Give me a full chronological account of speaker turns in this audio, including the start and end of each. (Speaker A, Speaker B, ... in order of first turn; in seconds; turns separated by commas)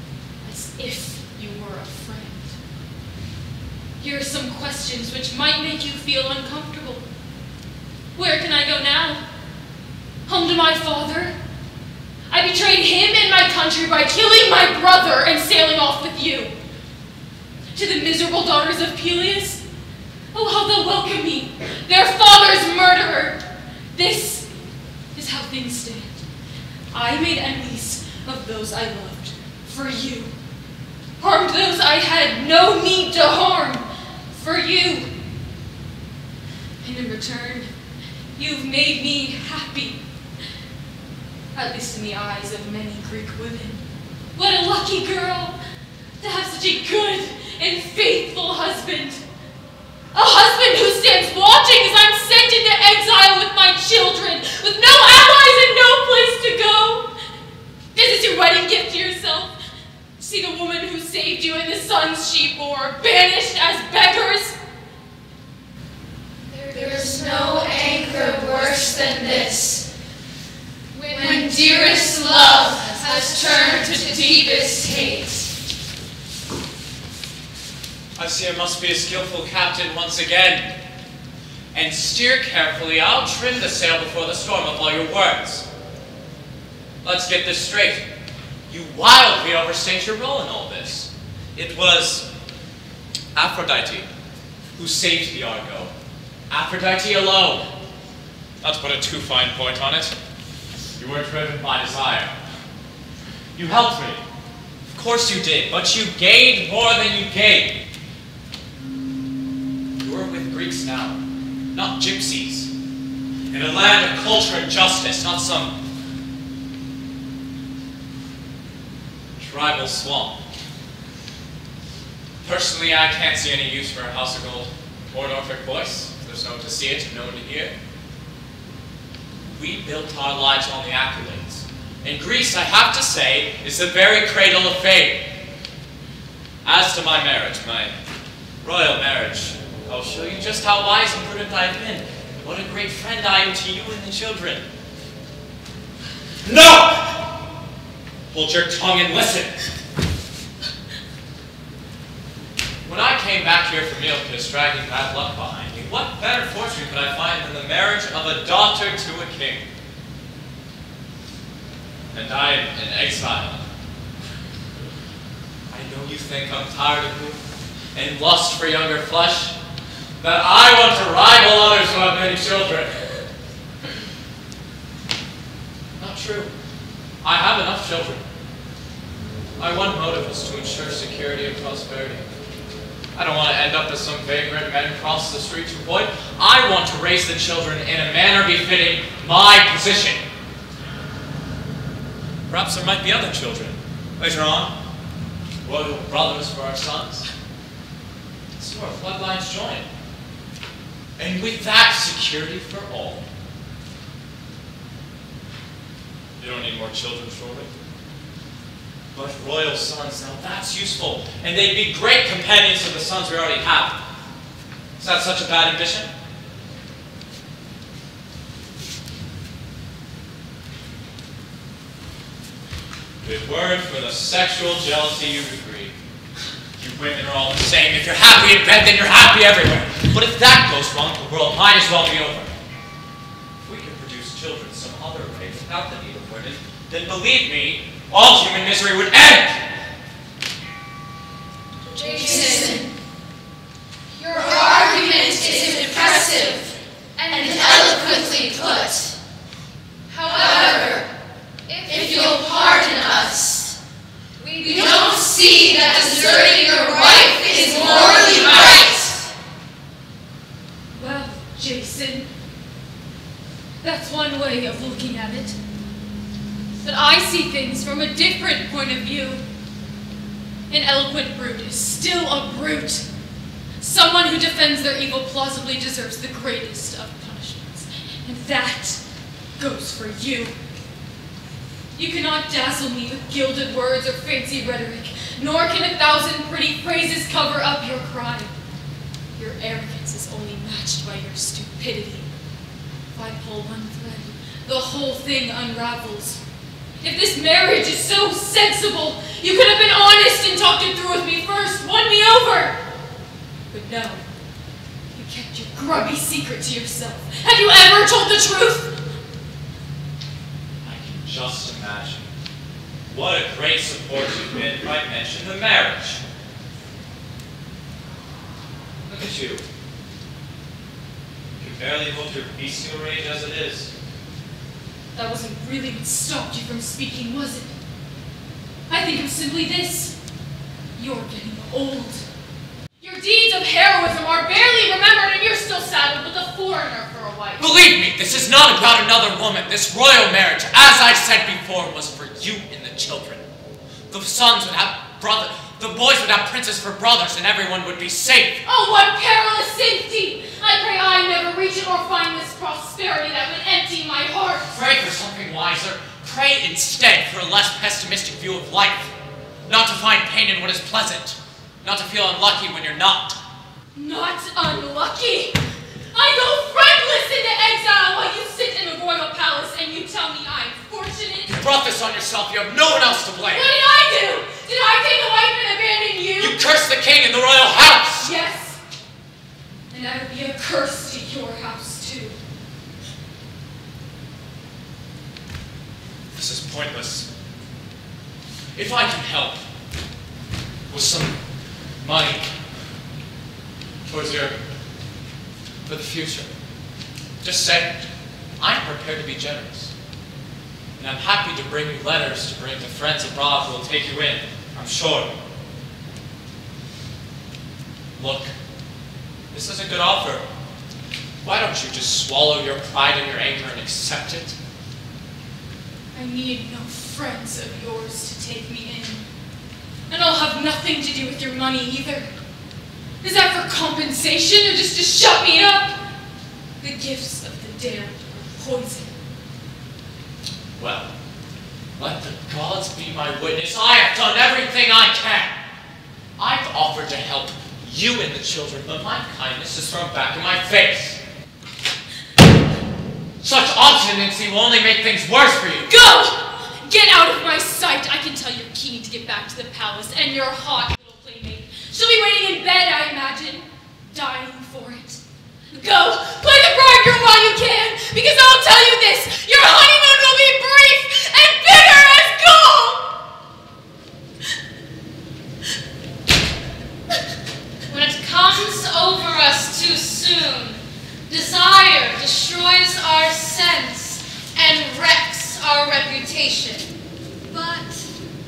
Speaker A: 0.4-2.5, Speaker A: 4.0-7.0, Speaker A: 8.2-9.2, Speaker A: 10.3-11.3, Speaker A: 12.3-16.5, Speaker A: 17.7-19.6, Speaker A: 20.3-23.4, Speaker A: 23.9-24.5, Speaker A: 25.1-26.2, Speaker A: 26.9-30.3, Speaker A: 31.2-35.1, Speaker A: 36.8-37.7, Speaker A: 38.4-40.0, Speaker A: 41.5-43.8, Speaker A: 44.4-45.6, Speaker A: 46.2-49.2, Speaker A: 50.1-57.1, Speaker A: 57.9-59.5, Speaker A: 60.2-64.6, Speaker B: 66.5-69.0, Speaker A: 66.7-69.5, Speaker A: 71.0-75.1, Speaker B: 71.1-74.8, Speaker C: 78.2-80.7, Speaker C: 81.7-85.6, Speaker C: 87.0-88.0, Speaker C: 88.7-92.3, Speaker C: 93.3-94.1, Speaker C: 94.8-95.9, Speaker C: 96.5-97.6, Speaker C: 98.6-100.1, Speaker C: 101.0-102.3, Speaker C: 103.5-104.2, Speaker C: 104.9-107.8, Speaker C: 110.0-111.2, Speaker C: 111.7-112.7, Speaker C: 113.5-115.8, Speaker C: 119.4-120.4, Speaker C: 122.4-127.7, Speaker C: 129.5-135.2, Speaker C: 136.6-137.9, Speaker C: 138.6-144.7, Speaker C: 146.4-147.4, Speaker C: 148.3-149.5, Speaker C: 152.8-159.7, Speaker C: 162.1-163.6, Speaker C: 165.7-167.4, Speaker C: 167.9-169.5, Speaker C: 170.2-173.0, Speaker C: 176.0-176.5, Speaker C: 177.2-178.2, Speaker C: 179.6-182.3, Speaker C: 183.1-190.2, Speaker C: 192.5-194.7, Speaker C: 195.6-197.2, Speaker C: 198.6-199.9, Speaker C: 201.2-203.2, Speaker C: 206.4-207.7, Speaker C: 209.1-214.0, Speaker C: 215.0-216.1, Speaker C: 223.2-225.9, Speaker C: 226.8-232.6, Speaker C: 233.6-239.6, Speaker B: 241.9-242.8, Speaker A: 242.0-242.9, Speaker B: 244.2-246.6, Speaker A: 244.6-246.7, Speaker B: 247.2-249.1, Speaker A: 247.5-248.1, Speaker A: 250.1-251.0, Speaker B: 250.2-251.0, Speaker B: 251.7-253.7, Speaker A: 251.9-253.1, Speaker B: 254.4-259.1, Speaker A: 254.6-259.1, Speaker A: 260.9-262.3, Speaker A: 263.8-265.6, Speaker A: 266.8-269.4, Speaker A: 270.7-273.1, Speaker A: 273.8-279.0, Speaker A: 279.6-280.5, Speaker A: 281.9-288.5, Speaker A: 289.4-292.3, Speaker A: 293.1-296.4, Speaker A: 297.0-302.8, Speaker A: 303.7-304.2, Speaker A: 305.1-308.9, Speaker C: 310.8-312.3, Speaker C: 313.1-316.2, Speaker C: 319.1-319.6, Speaker C: 321.6-323.9, Speaker A: 325.1-327.7, Speaker A: 328.9-330.1, Speaker A: 330.9-332.2, Speaker A: 333.0-334.3, Speaker A: 335.0-337.6, Speaker C: 337.6-343.4, Speaker C: 344.1-348.6, Speaker A: 348.6-354.8, Speaker C: 354.7-359.1, Speaker C: 359.6-363.4, Speaker A: 363.9-365.6, Speaker A: 366.1-371.6, Speaker C: 371.5-373.7, Speaker A: 373.5-376.6, Speaker C: 376.4-378.3, Speaker A: 378.2-378.8, Speaker A: 379.9-382.4, Speaker C: 386.3-387.3, Speaker C: 388.7-389.6, Speaker C: 390.9-391.4, Speaker C: 392.0-392.5, Speaker C: 394.1-394.6, Speaker C: 395.9-396.5, Speaker C: 397.4-398.0, Speaker C: 398.6-399.9, Speaker C: 401.0-405.4, Speaker C: 408.1-408.5, Speaker C: 409.5-410.4, Speaker C: 411.4-414.6, Speaker A: 416.1-419.3, Speaker A: 420.1-422.3, Speaker A: 423.2-425.9, Speaker A: 426.8-429.1, Speaker C: 430.7-431.1, Speaker C: 432.0-435.6, Speaker C: 436.4-441.2, Speaker C: 443.4-445.9, Speaker A: 445.9-455.2, Speaker A: 455.7-463.1, Speaker B: 469.6-470.4, Speaker A: 471.6-471.9, Speaker B: 472.9-476.8, Speaker B: 477.5-477.9